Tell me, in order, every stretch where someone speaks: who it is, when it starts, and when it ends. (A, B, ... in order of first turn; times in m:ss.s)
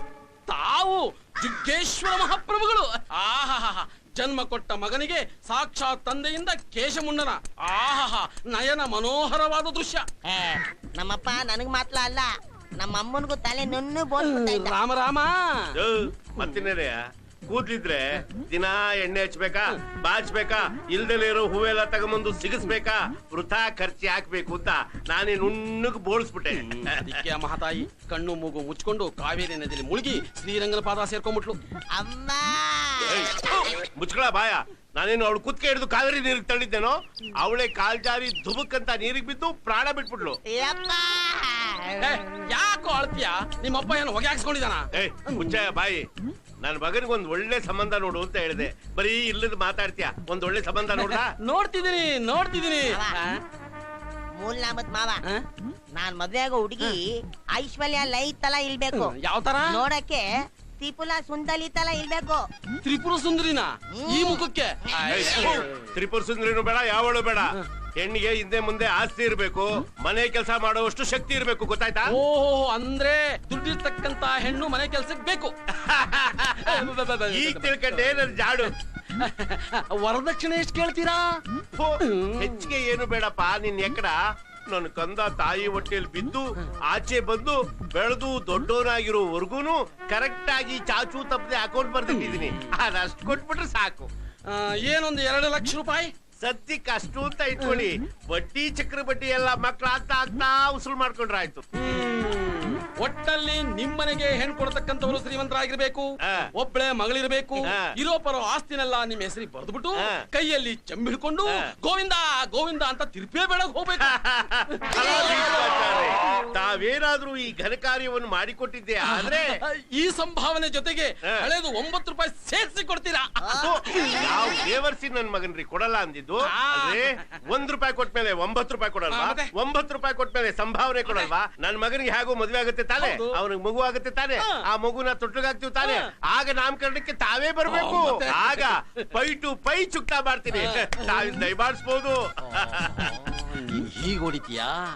0:00.5-0:10.0 A
0:11.0-0:12.3 B
0:12.8-0:14.7 B
0:14.2-0:15.3 A
0:15.8-0:26.6 C
0:26.5-0:31.6 A
0:32.0-0:32.5 B
0:33.0-0:40.4 C
0:40.6-0:41.6 B
0:42.0-0:45.5 A
0:44.9-0:46.1 C
0:46.6-0:51.3 C
0:50.9-0:53.4 A
0:54.4-0:55.2 B
0:56.0-0:56.9 B
0:57.6-0:59.0 B
0:58.9-0:59.9 A
0:59.8-1:00.2 B
1:00.8-1:02.4 B
1:02.8-1:05.6 A
1:05.0-1:12.1 C
1:12.1-1:15.5 A
1:15.8-1:18.7 C
1:16.5-1:18.3 A
1:19.2-1:21.4 A
1:21.7-1:24.2 C
1:22.1-1:22.7 A
1:24.7-1:34.1 C
1:32.1-1:32.6 A
1:34.5-1:36.1 A
1:36.4-1:41.6 C
1:41.8-1:54.1 A
1:54.0-1:59.5 C
1:54.8-1:55.7 A
1:59.0-2:04.2 A
2:03.5-2:23.1 C
2:06.5-2:07.1 A
2:09.1-2:09.5 A
2:11.0-2:11.3 A
2:13.0-2:13.4 A
2:17.6-2:18.7 A
2:20.5-2:21.4 A
2:22.6-2:24.7 A